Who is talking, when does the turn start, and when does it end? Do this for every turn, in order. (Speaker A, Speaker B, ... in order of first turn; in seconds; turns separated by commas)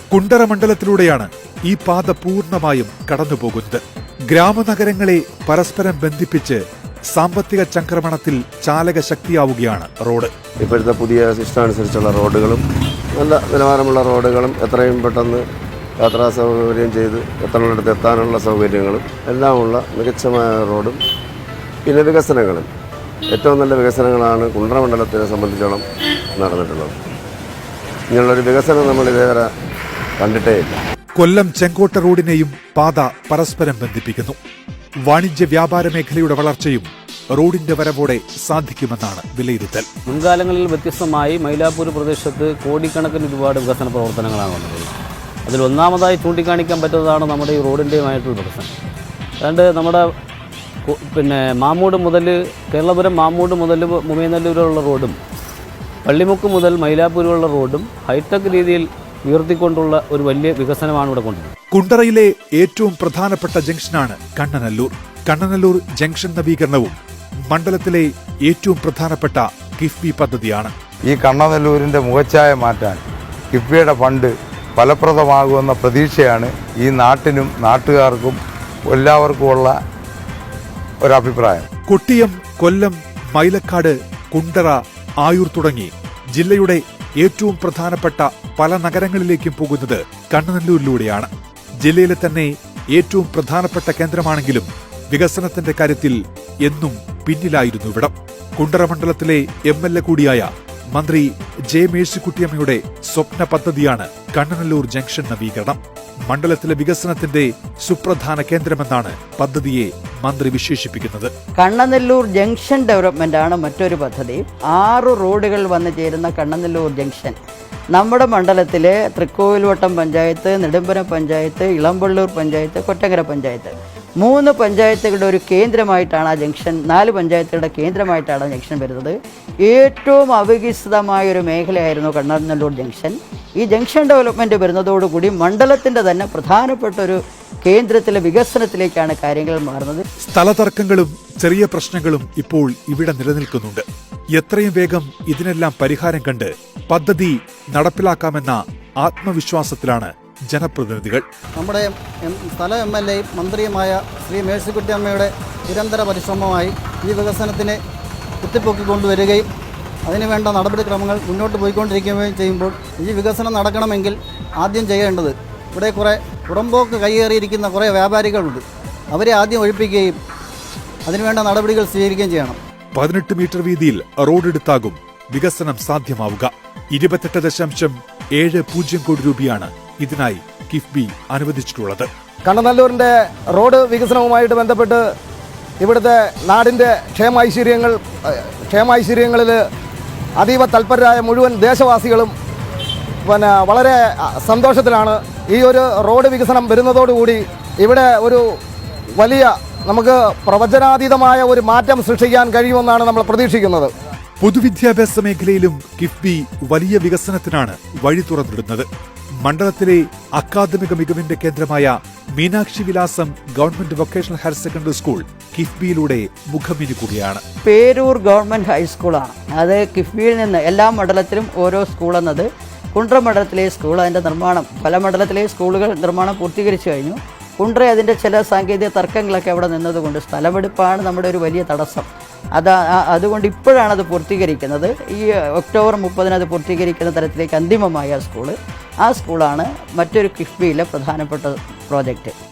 Speaker A: 0.1-10.3, Speaker B: 10.6-15.5, Speaker B: 16.0-21.0, Speaker B: 21.8-22.7, Speaker B: 23.3-27.0, Speaker B: 28.1-29.5, Speaker B: 30.2-30.8, Speaker A: 31.2-34.4, Speaker A: 35.1-39.9, Speaker C: 40.1-44.9, Speaker C: 45.5-48.7, Speaker C: 49.4-50.0, Speaker C: 50.8-55.2, Speaker C: 56.0-61.5, Speaker A: 61.7-67.0, Speaker A: 67.5-70.7, Speaker D: 71.0-79.8, Speaker D: 81.0-81.7, Speaker A: 81.9-91.3, Speaker A: 91.8-111.3, Speaker E: 111.6-117.3, Speaker E: 117.9-140.0, Speaker A: 140.2-151.2, Speaker F: 151.6-157.8, Speaker F: 158.4-159.5, Speaker F: 160.1-170.2, Speaker F: 171.1-172.6, Speaker A: 172.9-182.1, Speaker G: 182.4-185.0, Speaker G: 185.8-189.6, Speaker G: 190.4-192.3, Speaker G: 193.2-198.4, Speaker G: 199.2-203.9, Speaker A: 204.4-208.9, Speaker A: 209.4-217.4, Speaker E: 217.6-242.3